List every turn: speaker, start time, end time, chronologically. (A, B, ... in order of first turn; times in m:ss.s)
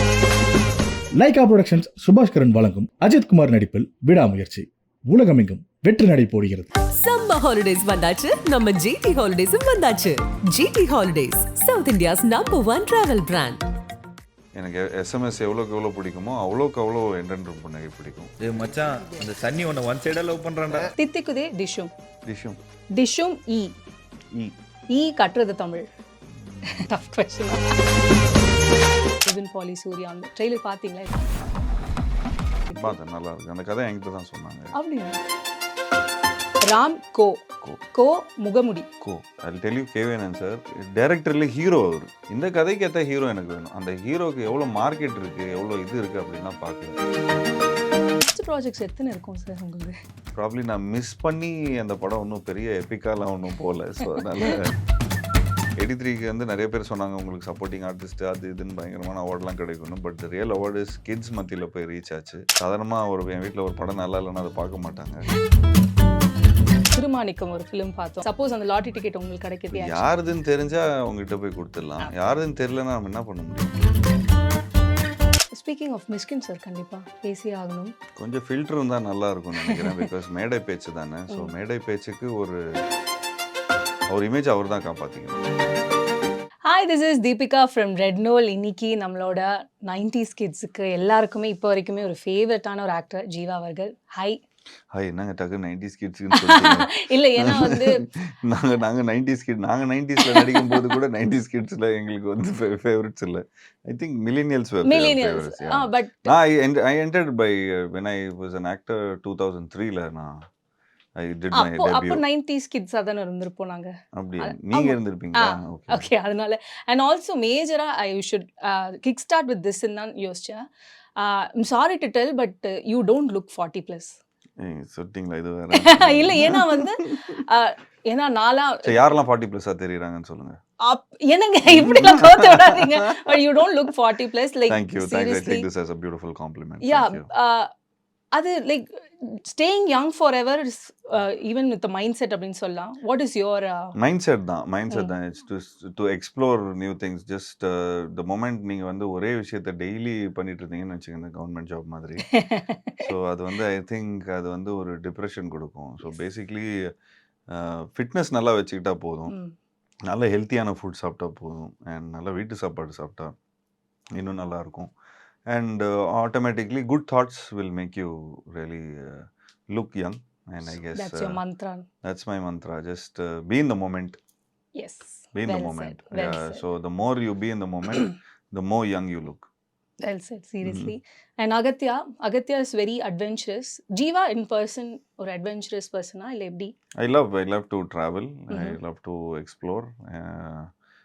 0:01.2-0:06.7 A
0:06.9-0:13.6 B
0:14.5-0:18.3 C
0:18.4-0:20.9 D
0:21.0-0:21.9 E
0:22.2-0:22.6 C
0:23.0-0:23.7 E
0:24.9-0:25.9 E
0:26.4-0:26.9 C
0:26.7-0:27.7 E
0:29.2-0:31.3 E
0:32.7-0:34.7 C
0:34.7-0:35.2 E
0:36.6-0:37.4 E
0:37.9-0:38.9 E
0:39.0-0:47.0 C
0:48.2-0:50.0 E
0:50.3-0:54.7 C
0:55.8-1:05.2 C
1:06.9-1:10.1 E
1:09.7-1:13.9 C
1:15.5-1:17.9 E
1:18.2-1:22.8 C
1:19.6-1:20.0 E
1:24.1-1:25.4 C
1:26.6-1:34.4 E
1:34.9-1:50.4 C
1:36.3-1:38.0 E
1:40.2-1:40.8 E
1:44.8-1:46.3 E
1:51.2-1:52.2 C
1:51.5-2:00.6 E
1:54.1-1:56.1 C
2:01.2-2:04.2 E
2:04.6-2:07.4 C
2:05.7-2:09.0 E
2:08.8-2:10.6 C
2:10.8-2:15.7 E
2:11.7-2:13.4 C
2:14.7-2:17.3 C
2:16.8-2:17.7 E
2:18.3-2:23.9 E
2:24.0-2:32.2 C
2:32.3-2:33.1 E
2:33.0-2:36.9 C
2:37.5-2:39.3 C
2:39.3-2:39.5 E
2:40.1-2:43.3 C
2:44.1-2:44.9 C
2:45.5-2:51.4 C
2:50.9-2:51.8 E
2:52.0-2:54.2 C
2:54.8-2:56.6 E
2:55.3-2:59.5 C
3:00.0-3:06.7 E
3:00.6-3:01.0 C
3:07.0-3:10.7 C
3:08.5-3:08.8 E